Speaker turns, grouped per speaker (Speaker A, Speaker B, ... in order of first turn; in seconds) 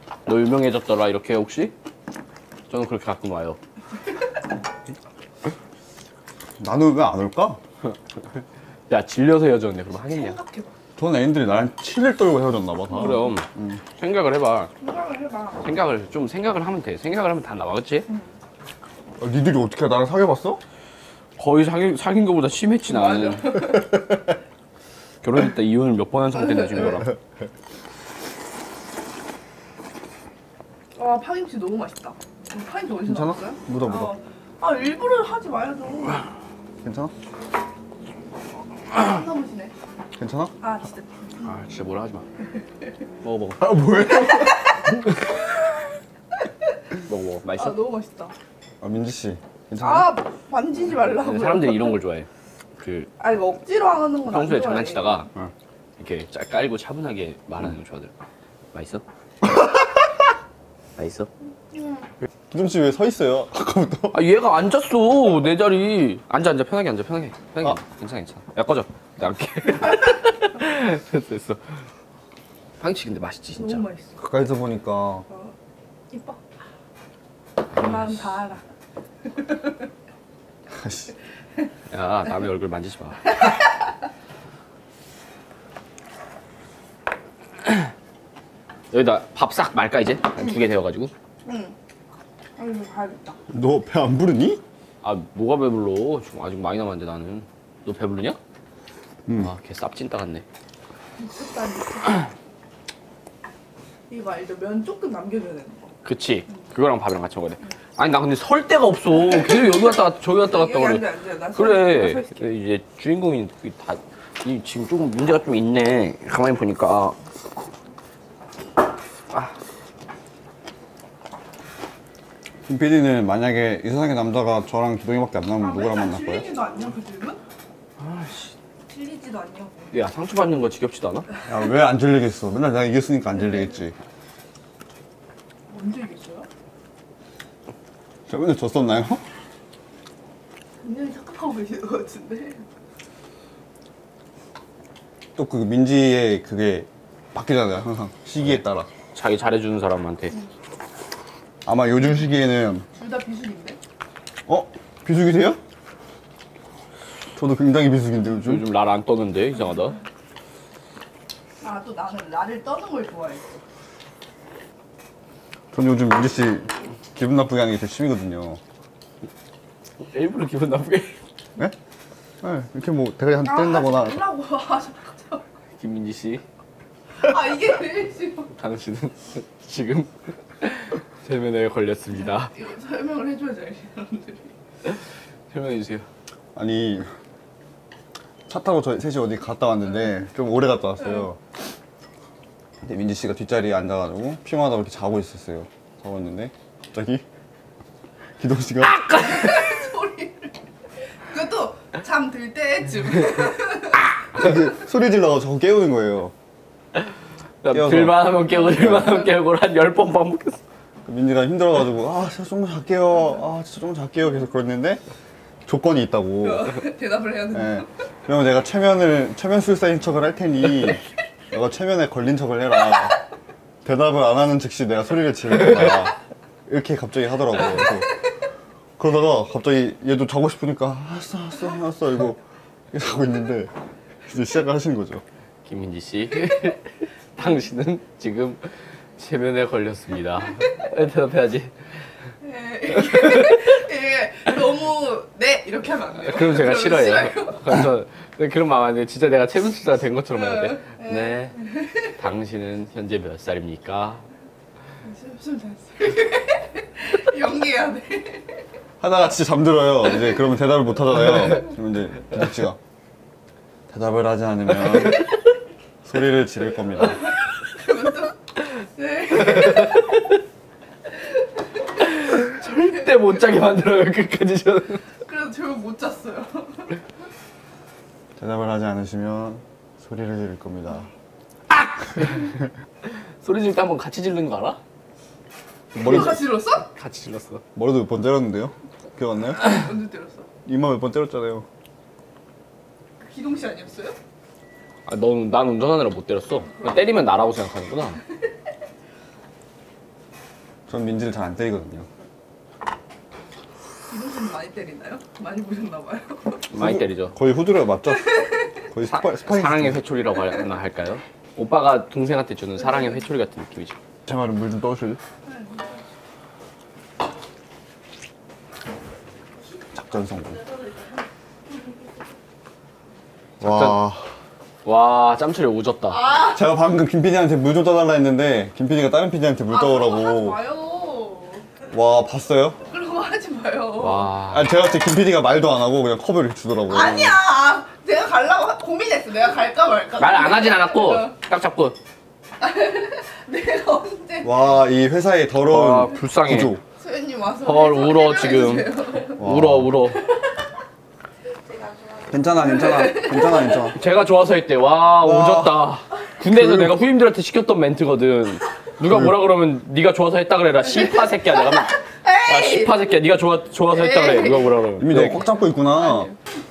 Speaker A: 0.2-1.7, 2.7-3.6, 8.9-10.3, 12.9-14.7, 15.6-18.1, 21.4-23.8, 25.2-27.1, 41.4-42.2, 43.2-43.8, 47.0-47.8, 51.1-53.1, 54.2-55.3, 56.0-58.1, 58.7-59.0, 61.0-61.3, 64.1-71.6, 72.8-73.8, 81.9-83.4, 88.9-91.1, 95.0-98.4, 99.4-100.4, 106.0-117.2, 128.0-128.5, 129.9-131.3, 149.1-150.4, 158.4-160.0, 170.1-171.2, 175.8-176.4, 178.5-182.5, 184.8-186.1, 198.8-199.6, 207.6-210.6, 235.7-241.8, 246.2-254.2, 272.0-275.1, 281.7-282.5, 283.4-284.8, 285.9-287.6, 295.1-298.2, 306.7-307.4, 309.1-314.0, 323.6-323.9, 324.8-326.2, 334.0-334.7, 340.2-342.0, 345.7-346.8, 347.6-350.3, 353.9-365.5
Speaker B: 6.6-7.6, 11.0-13.8, 19.2-20.6, 33.0-34.1, 36.8-37.1, 40.2-40.5, 43.6-44.7, 48.8-50.1, 62.5-64.2, 74.2-75.2, 80.7-81.1, 93.5-94.6, 122.7-126.5, 131.5-133.9, 138.3-139.2, 145.3-148.9, 151.7-152.9, 154.5-155.6, 157.3-158.7, 165.7-168.6, 172.4-174.2, 186.5-187.1, 188.5-191.4, 192.8-197.2, 198.4-199.1, 204.3-206.3, 207.7-209.1, 211.1-215.0, 215.7-216.8, 217.5-223.2, 223.8-226.2, 226.7-228.2, 229.0-233.7, 234.2-235.2, 259.0-262.8, 263.9-265.3, 266.0-267.2, 278.4-281.1, 287.7-289.8, 290.6-291.6, 300.9-302.1, 306.7-310.0, 314.3-315.2, 319.9-320.7, 323.6-324.3, 326.5-330.6, 331.9-332.8, 334.5-337.4, 344.4-346.8, 349.4-349.9, 352.3-354.0, 355.2-355.8, 356.4-357.0, 359.0-359.4, 365.0-366.3
Speaker C: 10.1-10.7, 14.8-15.7, 22.9-23.9, 30.9-36.3, 38.8-39.7, 40.6-41.5, 47.6-48.3, 49.8-52.0, 53.2-55.2, 61.7-62.0, 73.6-74.2, 75.3-75.5, 76.1-76.4, 77.7-78.6, 91.4-91.7, 92.6-93.4, 101.2-102.3, 104.1-105.9, 110.4-112.4, 125.6-127.4, 128.9-130.0, 135.7-136.5, 140.8-142.6, 152.9-153.8, 161.6-163.5, 173.4-175.4, 177.1-178.5, 182.2-184.5, 199.1-204.1, 208.5-209.3, 216.4-217.9, 242.4-247.8, 250.3-252.1, 255.0-258.6, 267.7-270.3, 273.0-273.4, 275.2-277.0, 285.9-286.9, 289.5-290.5, 293.2-294.2, 304.1-306.6, 308.2-308.7, 315.4-316.1, 326.1-326.6, 329.7-331.7, 332.9-334.3, 336.9-341.3, 342.6-344.7, 346.9-349.4, 351.7-353.9, 360.9-363.0, 363.9-366.4